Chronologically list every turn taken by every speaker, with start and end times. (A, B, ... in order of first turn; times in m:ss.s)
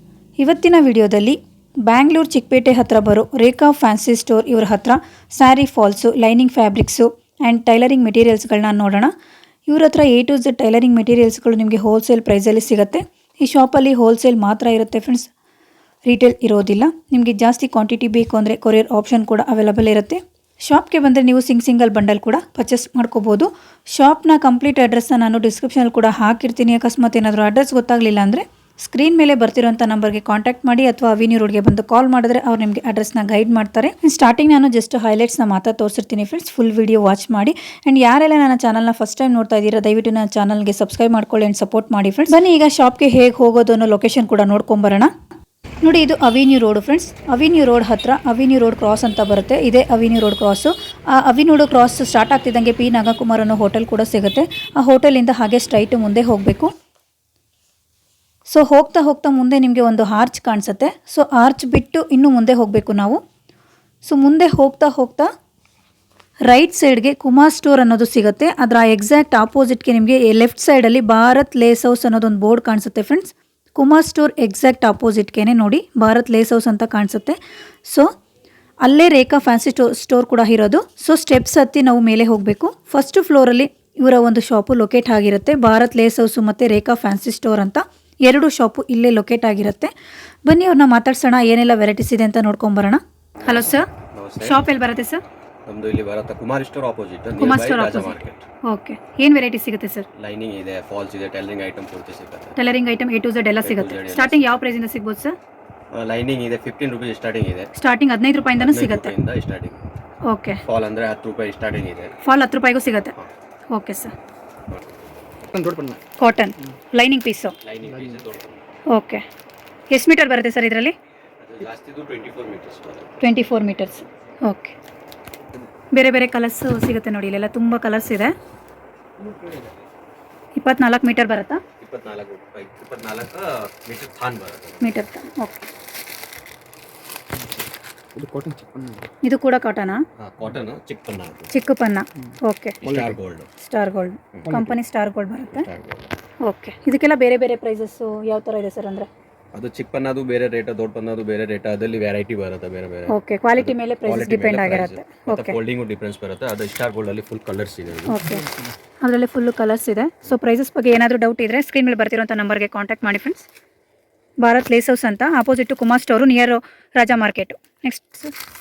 0:00.4-0:09.1 A
0:09.7-0:15.3 A
0:16.0-0:45.1 A
0:45.8-0:56.7 A
0:58.5-1:03.2 A
1:04.0-1:05.3 A
1:06.4-1:18.1 A
1:18.8-1:29.9 A
1:30.4-1:33.8 A
1:33.4-1:34.6 B
1:34.4-1:35.2 A
1:35.6-1:38.4 B
1:37.4-1:40.1 A
1:40.2-1:42.6 B
1:42.6-1:45.3 A
1:43.6-1:44.7 B
1:45.9-1:47.7 B
1:47.7-1:49.1 A
1:48.6-1:49.8 B
1:50.3-1:50.6 A
1:50.6-1:52.2 B
1:52.2-1:53.1 A
1:53.7-1:54.1 A
1:54.7-1:55.1 B
1:55.5-1:56.0 C
1:56.2-1:57.6 A
1:57.6-1:58.6 B
1:57.8-1:58.3 C
1:58.9-1:59.2 A
1:59.9-2:00.9 A
2:01.4-2:03.2 B
2:03.2-2:04.7 A
2:05.9-2:08.4 A
2:09.2-2:09.7 C
2:10.6-2:11.6 A
2:11.8-2:15.0 B
2:14.8-2:15.7 A
2:18.1-2:19.1 C
2:19.2-2:20.0 A
2:20.2-2:21.5 B
2:21.5-2:22.8 A
2:22.2-2:23.2 C
2:22.8-2:23.5 B
2:23.6-2:25.7 A
2:24.4-2:24.7 C
2:25.5-2:26.1 B
2:26.4-2:29.1 A
2:29.5-2:38.2 B
2:33.1-2:35.6 A
2:38.1-2:38.4 A
2:38.2-2:38.8 C
2:39.0-2:43.4 A
2:44.4-2:48.3 A